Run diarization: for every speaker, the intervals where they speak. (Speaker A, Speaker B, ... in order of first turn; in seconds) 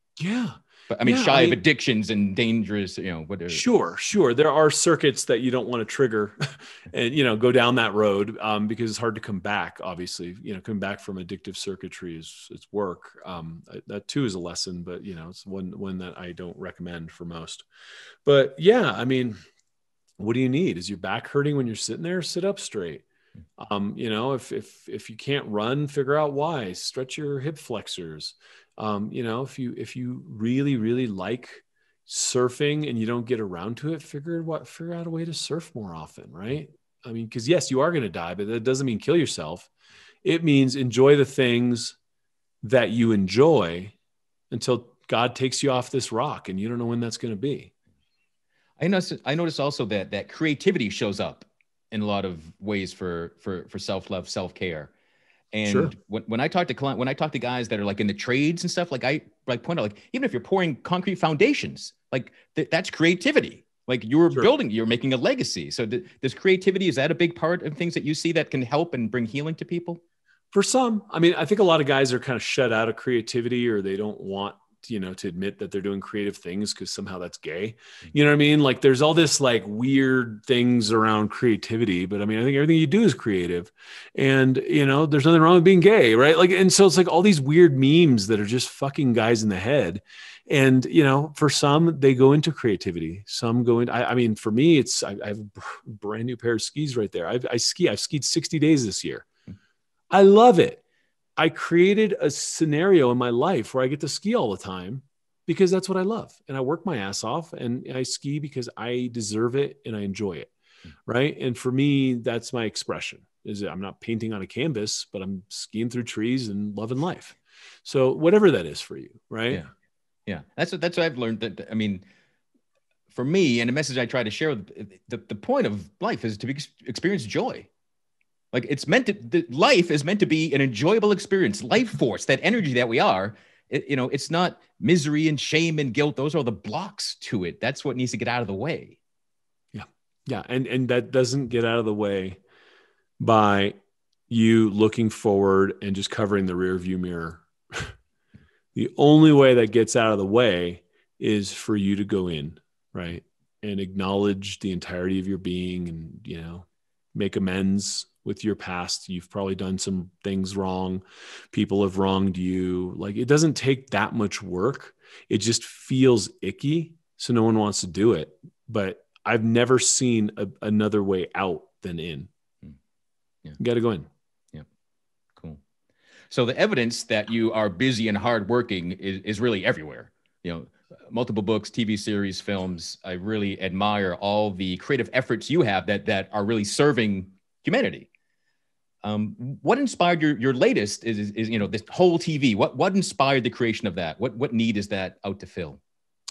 Speaker A: 0.2-1.6, 3.5-17.7, 18.2-19.4, 20.2-23.1, 23.6-39.7, 40.2-42.0, 42.6-44.0, 44.5-47.7, 55.7-55.9, 70.5-99.3, 100.1-100.8, 101.4-110.5, 111.1-119.7, 139.7-142.4, 143.2-143.8, 144.3-147.9, 148.7-172.3, 173.6-174.1
Speaker B: 0.9-3.6, 48.8-54.9, 55.5-70.0, 120.3-122.0, 123.1-127.7, 128.5-139.0, 175.4-175.6, 176.3-188.1, 189.0-195.8